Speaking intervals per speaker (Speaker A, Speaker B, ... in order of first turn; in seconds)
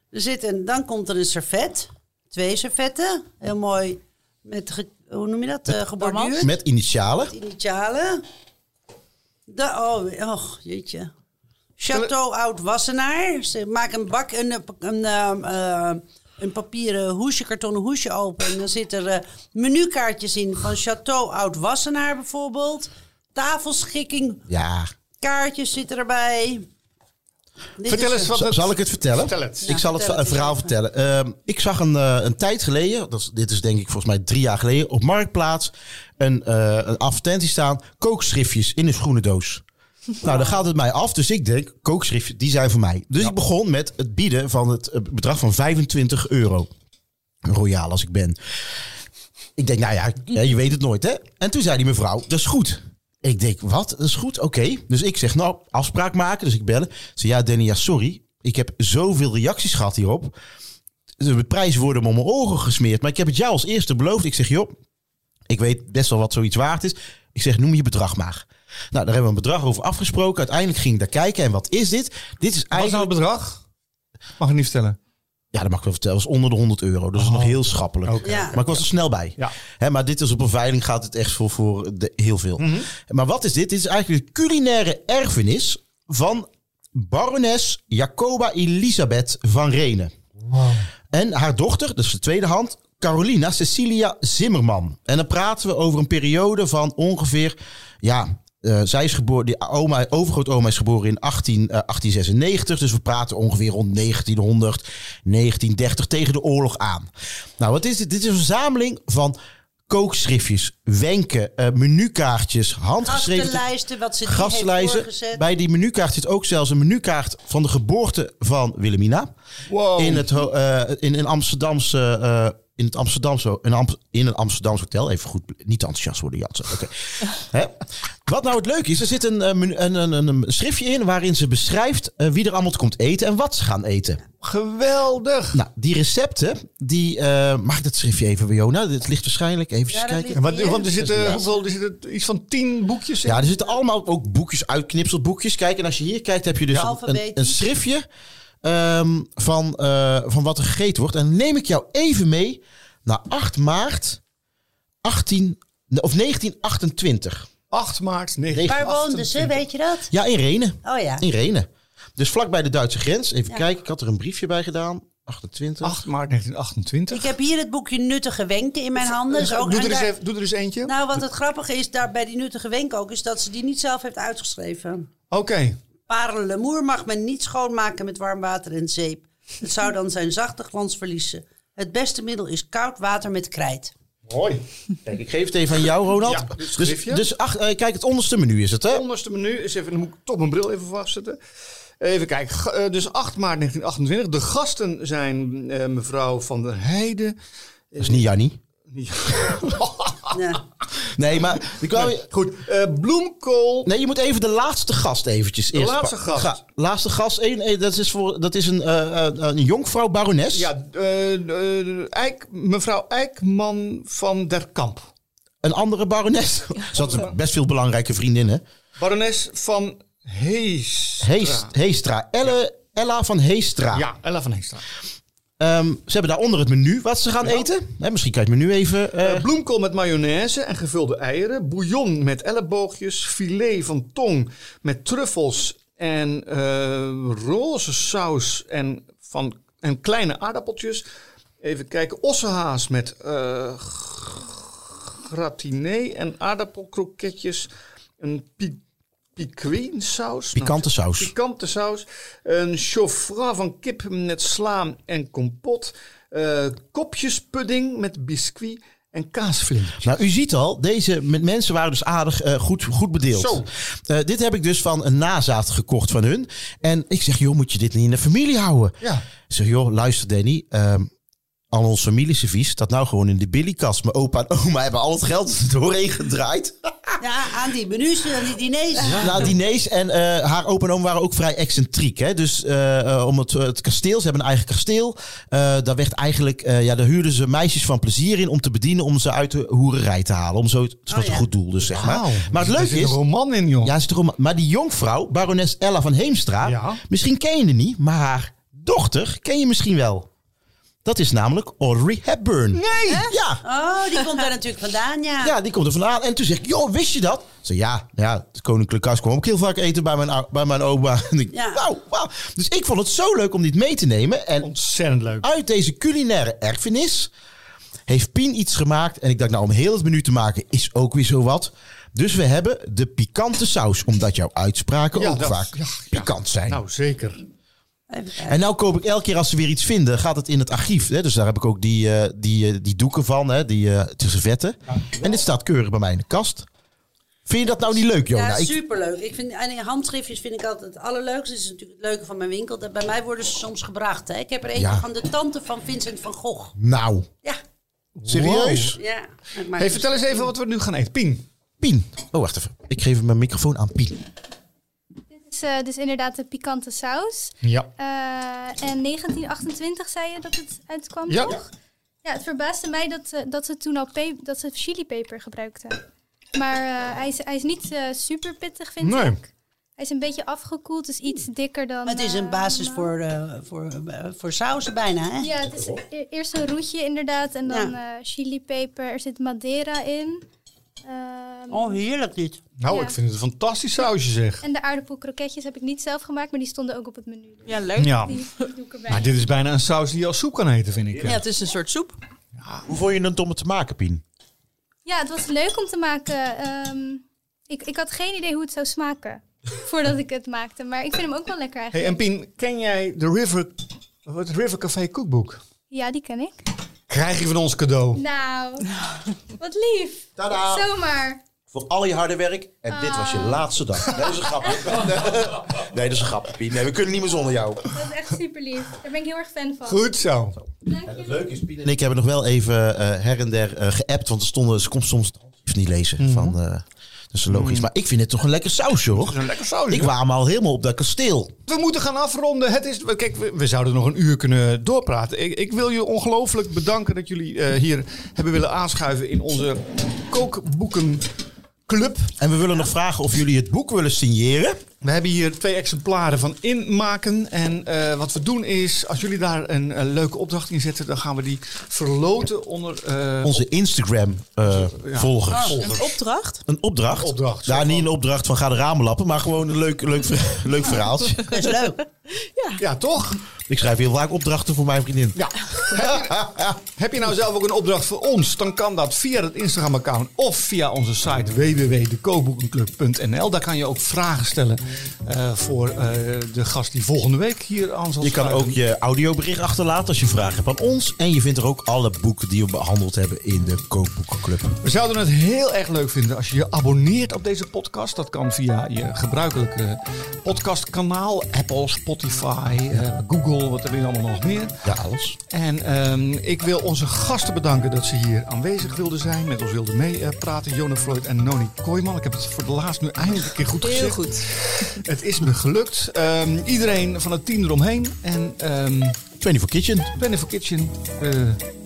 Speaker A: 0.1-6.5, 7.3-8.2, 9.5-11.1, 11.8-24.4, 25.2-26.7, 27.8-28.3, 29.6-30.7, 40.2-40.6, 78.2-78.5, 113.0-115.4, 139.9-141.6, 146.7-147.7, 158.7-160.1, 160.8-161.2, 167.1-170.1, 170.9-175.1, 176.1-183.9, 200.3-200.6, 277.2-279.4, 291.1-291.5, 303.6-305.6, 311.5-311.8, 328.1-328.6, 338.3-346.8, 348.9-350.5, 372.1-375.5, 377.7-377.9, 381.7-382.6, 461.5-462.0
Speaker B: 6.0-6.5, 387.7-388.7, 391.2-392.2, 455.8-456.6, 462.3-462.8, 503.8-505.0
Speaker C: 6.4-7.3, 24.5-24.9, 28.3-39.6, 40.2-46.7, 47.5-48.4, 49.6-60.4, 61.2-64.7, 65.5-73.1, 75.5-90.1, 91.1-109.4, 109.9-113.7, 114.2-119.3, 120.0-134.2, 135.5-141.4, 143.2-148.1, 148.6-154.2, 155.0-157.5, 158.5-158.9, 160.1-166.0, 185.1-189.1, 198.0-198.6, 201.0-202.3, 203.8-210.7, 215.6-218.6, 221.2-224.1, 225.6-229.5, 250.5-251.3, 260.0-268.9, 269.5-271.1, 271.7-277.2, 279.1-293.2, 293.8-300.3, 301.1-303.6, 305.4-314.7, 315.4-317.3, 318.1-326.8, 328.4-336.7, 337.5-338.8, 344.8-345.1, 346.8-347.3, 348.3-349.0, 351.8-354.2, 392.9-394.2, 410.4-410.9, 411.7-417.9, 421.0-431.5, 442.4-444.8, 453.4-456.0, 456.7-461.6, 463.7-466.8, 478.2-484.8, 494.8-495.4, 509.4-510.1
Speaker D: 27.9-29.8, 72.7-73.6, 74.4-75.0, 77.2-78.8, 82.6-82.9, 90.4-90.9, 119.7-120.3, 134.4-135.6, 140.3-143.5, 157.7-159.6, 165.8-167.3, 169.1-170.9, 175.3-175.8, 184.3-184.6, 186.2-187.3, 188.9-191.4, 192.0-197.4, 197.9-198.2, 198.9-200.4, 201.9-203.9, 205.7-206.6, 210.5-215.1, 217.0-217.3, 219.0-221.7, 223.9-224.8, 229.2-241.1, 241.6-247.7, 248.2-248.8, 249.4-260.1, 263.3-263.7, 279.1-279.4, 291.9-293.9, 296.6-297.0, 302.8-303.3, 314.6-315.5, 325.1-327.5, 348.2-349.0, 349.8-351.5, 357.6-357.9, 361.3-361.6, 369.0-369.4, 382.8-384.6, 388.0-388.4, 389.1-391.4, 392.6-392.9, 401.9-405.6, 407.1-408.2, 419.9-420.6, 426.2-426.6, 427.5-427.9, 429.1-430.1, 431.7-441.3, 441.9-442.3, 445.0-453.6, 454.7-456.1, 457.1-458.1, 462.8-463.4, 465.4-478.8, 484.8-494.8, 495.5-509.2, 510.1-511.6
Speaker E: 355.3-361.7, 362.2-366.0, 366.6-373.1, 375.4-380.4, 381.1-382.0, 382.9-383.2, 384.6-389.3, 395.1-402.2, 405.9-406.6, 408.1-411.4, 412.9-413.6, 414.4-415.1, 417.9-420.0, 420.9-421.3